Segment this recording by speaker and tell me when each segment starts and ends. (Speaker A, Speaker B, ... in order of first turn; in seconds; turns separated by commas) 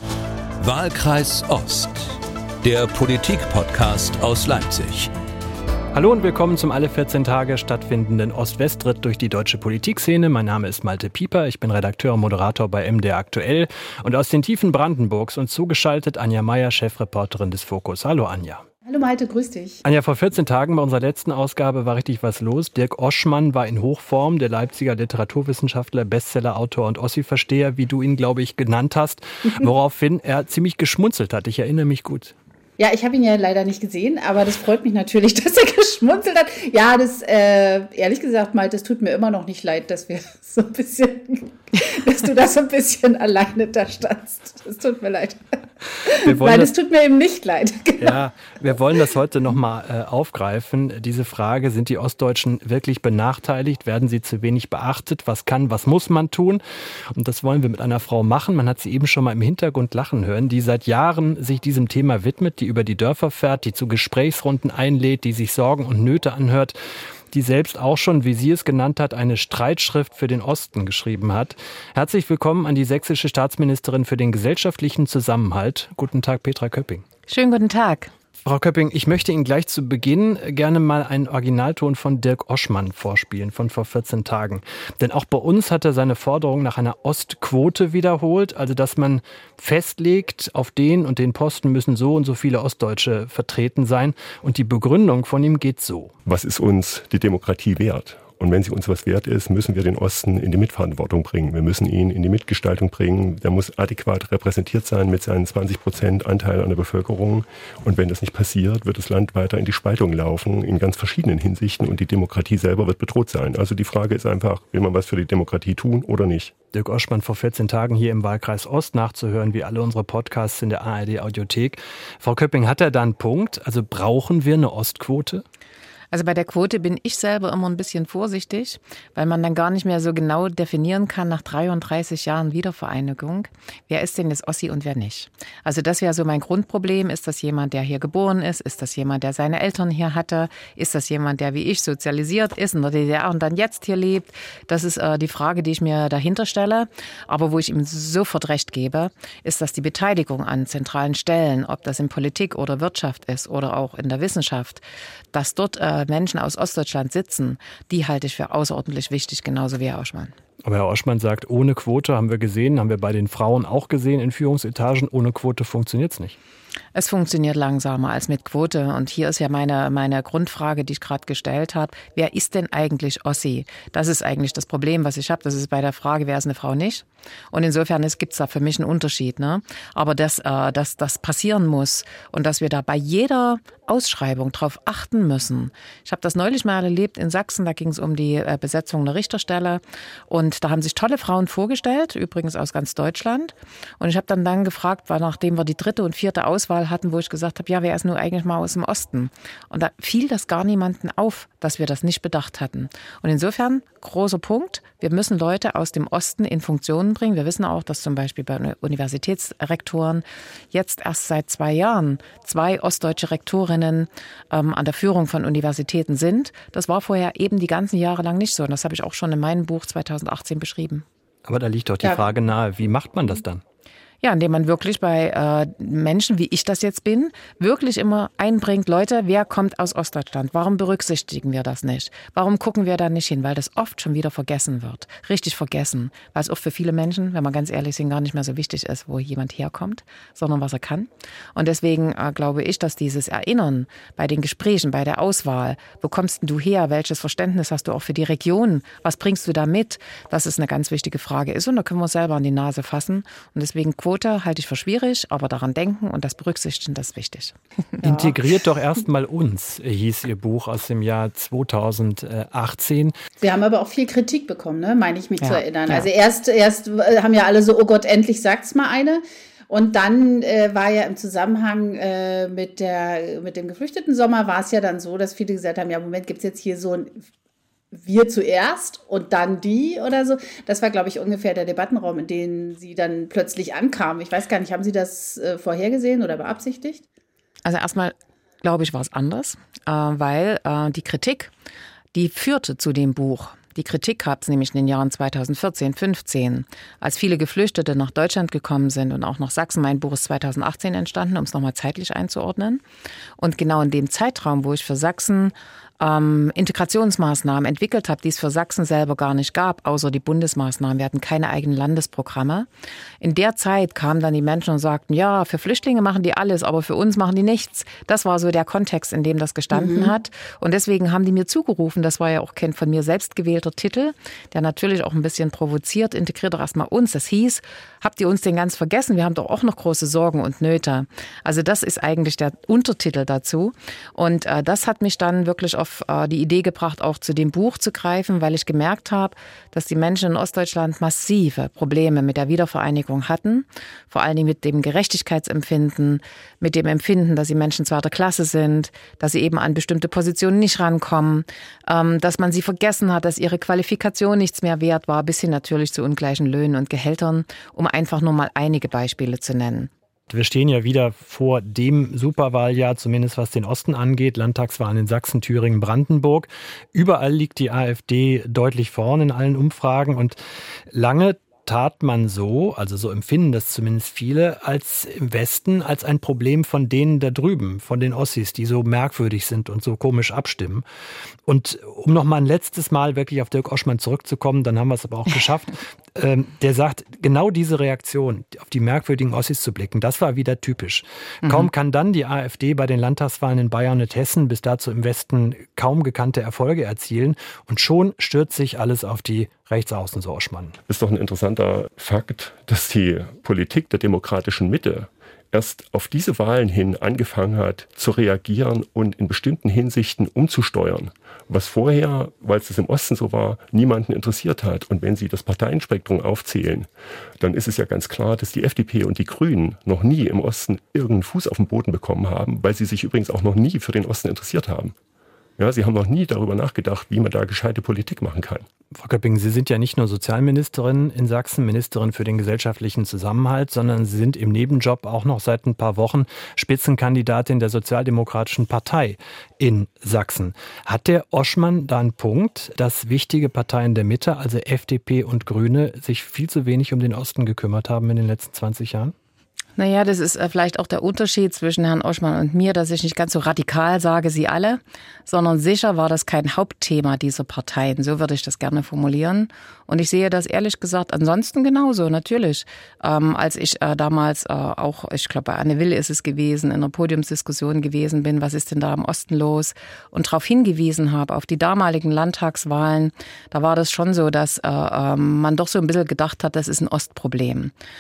Speaker A: 0.6-5.1, Speaker B: 5.9-18.6, Speaker C: 18.9-19.8, Speaker B: 19.8-32.4, Speaker C: 32.8-48.2, Speaker B: 46.2-46.7, Speaker B: 48.0-66.8, Speaker B: 67.3-77.0, Speaker D: 77.3-78.1, Speaker B: 78.5-96.1, Speaker E: 96.3-116.5, Speaker B: 116.7-125.5, Speaker D: 126.1-154.8, Speaker D: 155.3-160.3, Speaker B: 160.6-166.4, Speaker D: 166.9-221.1, Speaker B: 221.5-223.6, Speaker D: 224.2-258.1, Speaker B: 258.0-263.2, Speaker C: 263.4-277.2, Speaker D: 265.4-266.1, Speaker C: 277.9-287.1, Speaker D: 287.6-291.5, Speaker D: 292.1-302.8, Speaker D: 303.4-312.7, Speaker D: 313.2-359.9, Speaker C: 319.7-320.1, Speaker B: 360.3-370.4, Speaker B: 370.9-380.9, Speaker B: 381.5-400.8, Speaker E: 400.9-424.9, Speaker E: 425.6-428.7, Speaker B: 428.9-449.1, Speaker D: 449.8-477.7